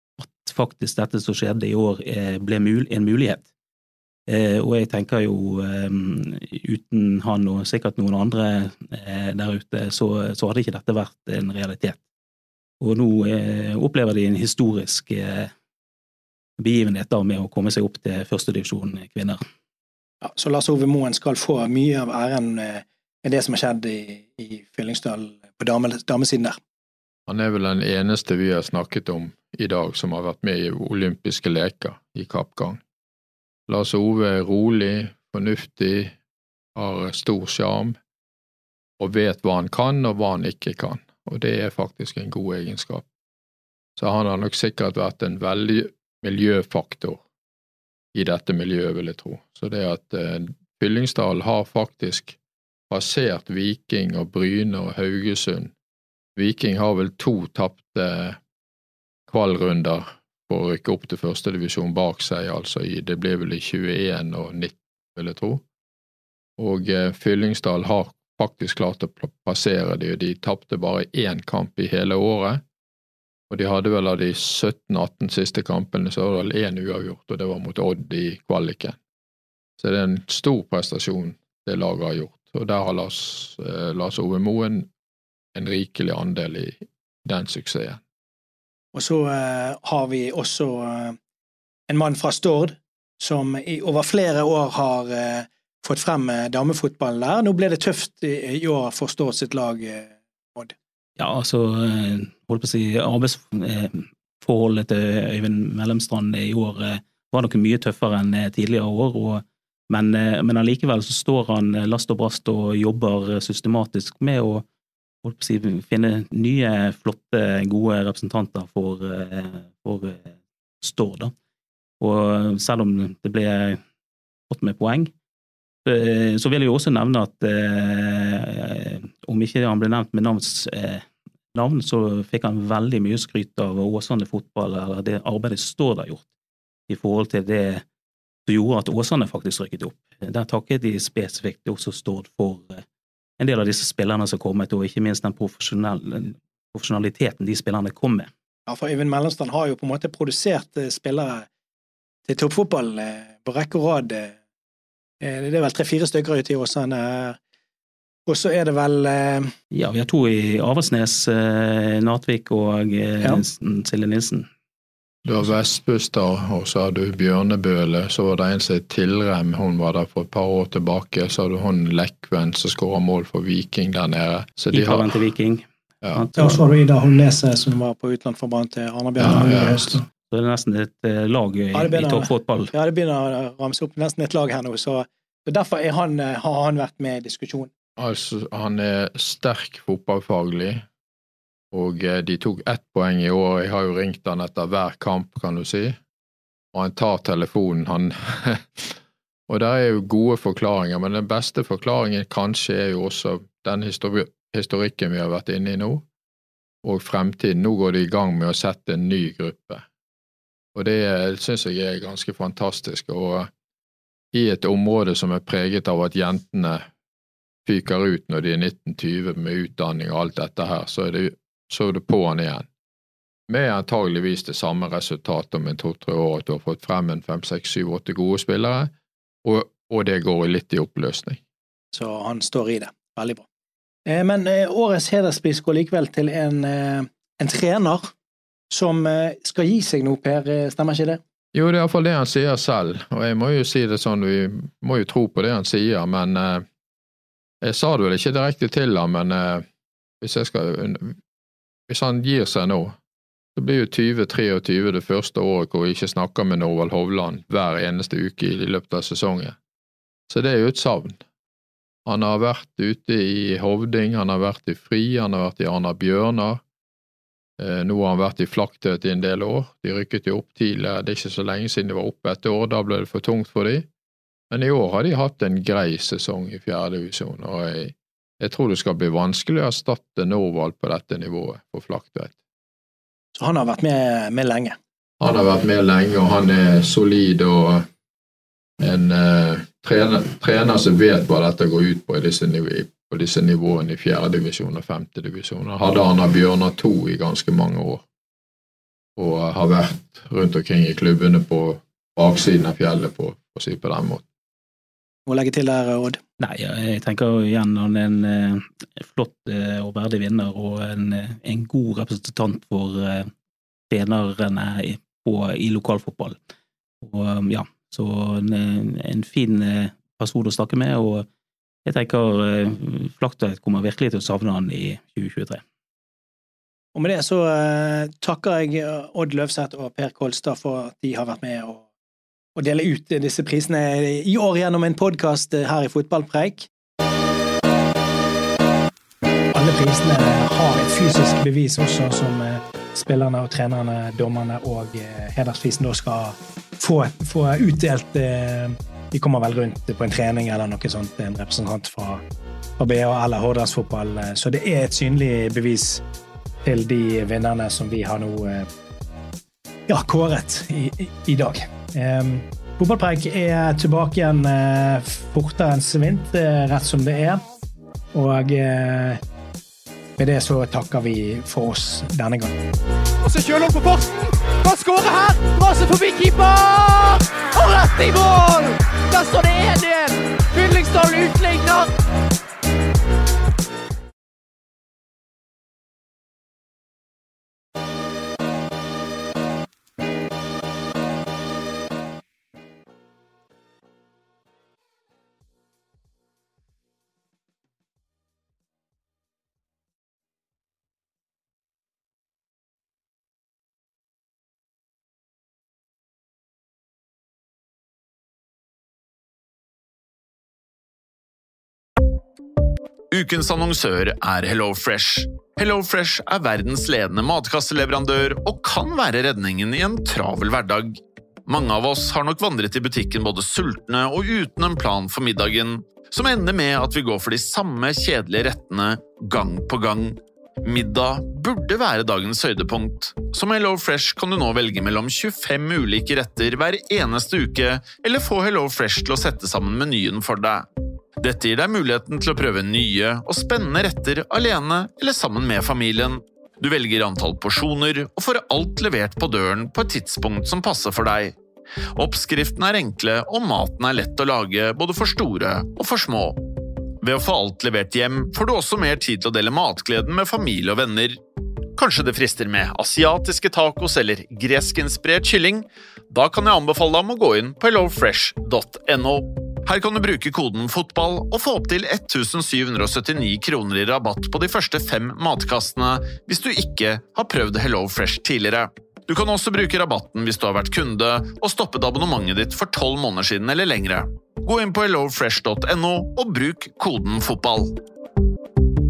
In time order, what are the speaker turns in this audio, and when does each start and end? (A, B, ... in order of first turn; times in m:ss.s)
0:00.2-0:03.5 A
0:04.3-0:12.0 A
0:12.8-0:15.5 A
0:16.6-0:19.4 A
0:20.2-0:26.6 B
0:27.3-0:32.8 C
0:33.7-0:36.2 C
0:36.7-0:38.0 C
0:39.0-0:43.1 C
0:44.0-0:47.2 C
0:48.1-0:52.4 C
0:52.9-0:55.7 C
0:56.4-0:58.4 C
0:59.3-1:05.6 C
1:06.6-1:12.6 C
1:13.5-1:19.0 C
1:19.8-1:24.9 C
1:25.6-1:28.0 C
1:28.9-1:31.2 B
1:31.9-1:40.7 B
1:41.2-1:54.6 A
1:55.2-2:01.3 A
2:02.0-2:03.8 A
2:04.5-2:05.1 A
2:05.8-2:16.3 A
2:16.9-2:17.8 A
2:18.4-2:22.8 A
2:23.4-2:28.3 A
2:28.7-2:31.5 B
2:32.3-2:34.4 B
2:35.2-2:37.4 B
2:38.3-2:39.5 B
2:39.7-2:44.5 A
2:45.2-2:55.2 C
2:54.7-2:56.6 A
2:56.4-3:00.0 B
2:59.2-3:00.0 C
3:00.3-3:02.7 A
3:01.7-3:07.7 B
3:08.0-3:10.8 C
3:11.7-3:16.0 C
3:16.7-3:26.0 C
3:26.8-3:29.9 C
3:30.7-3:33.5 C
3:34.3-3:36.8 C
3:37.7-3:42.7 C
3:43.5-3:48.9 C
3:49.4-3:51.4 C
3:51.9-3:53.4 B
3:54.1-3:58.1 B
3:58.7-4:01.2 B
4:01.5-4:06.6 C
4:07.6-4:09.6 C
4:10.2-4:11.2 C
4:11.9-4:13.0 C
4:13.6-4:19.6 C
4:20.3-4:21.2 C
4:22.0-4:26.6 C
4:27.6-4:33.9 C
4:34.5-4:42.4 C
4:43.4-4:44.8 B
4:45.2-4:47.9 C
4:48.8-4:58.0 C
4:59.2-5:04.2 C
5:05.3-5:06.2 B
5:06.4-5:13.3 A
5:13.9-5:16.4 A
5:17.0-5:21.3 A
5:21.9-5:25.6 A
5:27.0-5:31.9 B
5:32.6-5:36.7 B
5:39.5-5:52.2 B
5:52.8-5:56.0 B
5:56.6-5:58.7 B
5:59.9-6:07.4 B
6:08.1-6:09.2 B
6:10.2-6:12.6 B
6:13.2-6:21.9 D
6:53.1-7:20.6 E
7:21.2-7:31.4 E
7:32.0-7:36.4 E
7:37.0-7:41.2 E
7:41.8-8:07.7 E